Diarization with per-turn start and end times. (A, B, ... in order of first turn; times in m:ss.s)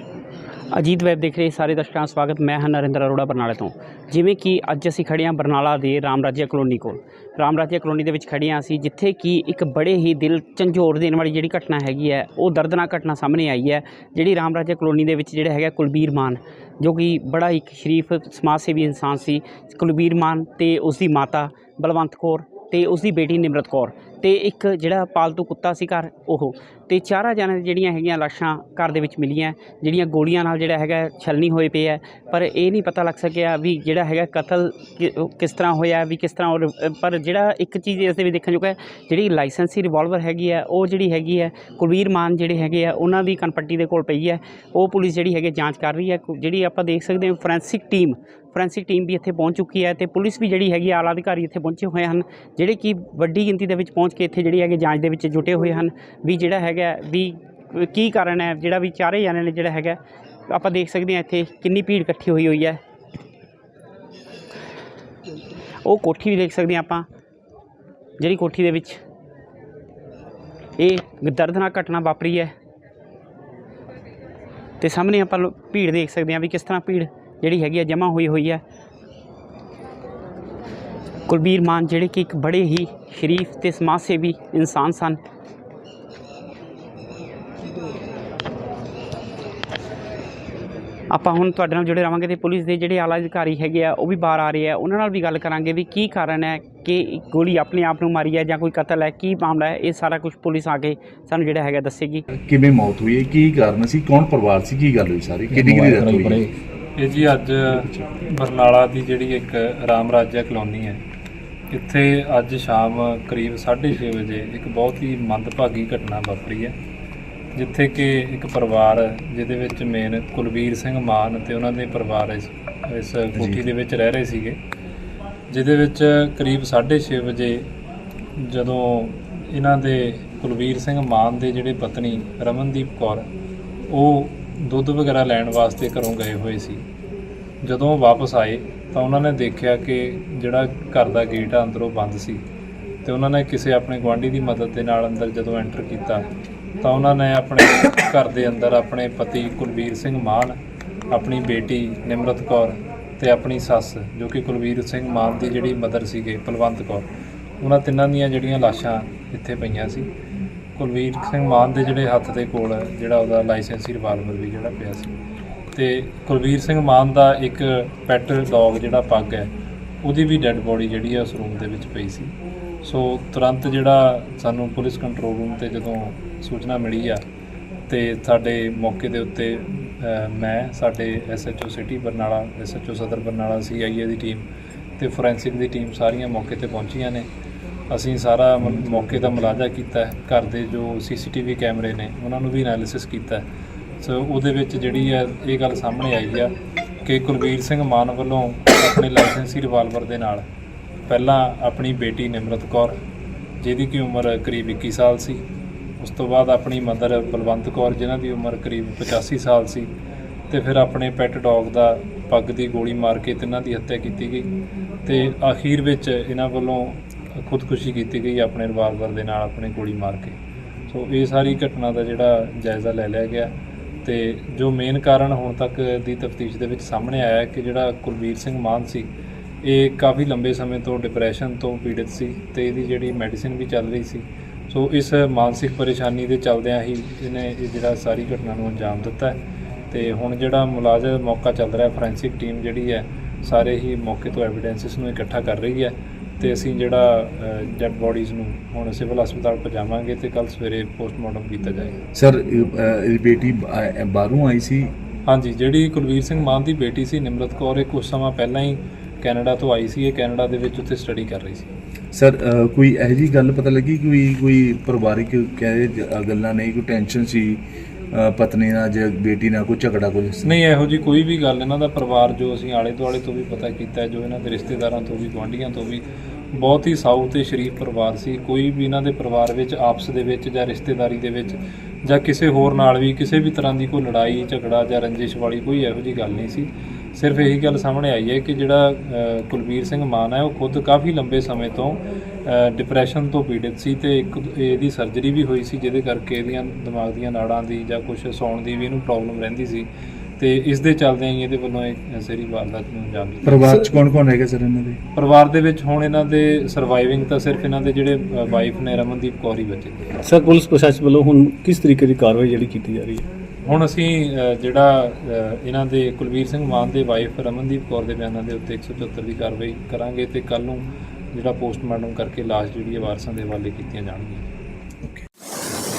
0:00.7-1:02.8 A
1:05.8-1:07.1 A
1:08.2-1:09.0 A
1:10.8-1:12.5 A
1:14.8-1:18.6 A
1:21.3-1:25.2 A
1:31.1-1:42.2 A
1:42.3-1:46.4 B
1:45.5-1:46.5 C
1:47.0-1:51.0 D
1:51.7-1:56.8 D
1:57.6-2:04.6 D
2:03.4-2:03.6 B
2:05.5-2:07.7 D
2:08.4-2:13.3 D
2:13.9-2:16.8 D
2:17.6-2:22.4 D
2:23.0-2:26.3 D
2:26.8-2:30.6 D
2:31.1-2:37.1 D
2:37.6-2:40.1 D
2:40.8-2:45.2 D
2:45.7-2:49.5 D
2:50.0-2:57.2 D
2:57.9-3:04.4 D
3:05.0-3:07.3 D
3:07.9-3:13.4 D
3:14.0-3:16.5 D
3:17.0-3:20.4 D
3:21.1-3:23.0 D
3:23.6-3:25.4 D
3:26.0-3:29.9 D
3:30.5-3:34.5 D
3:35.1-3:40.4 D
3:40.9-3:49.1 D
3:49.6-4:12.0 D
4:12.1-4:14.9 B
4:15.2-4:21.7 D
4:22.1-4:30.6 B
4:30.4-4:59.9 D
5:00.4-5:03.7 D
5:03.4-5:05.0 B
5:05.2-5:10.2 D
5:10.2-5:13.3 C
5:13.6-5:24.5 D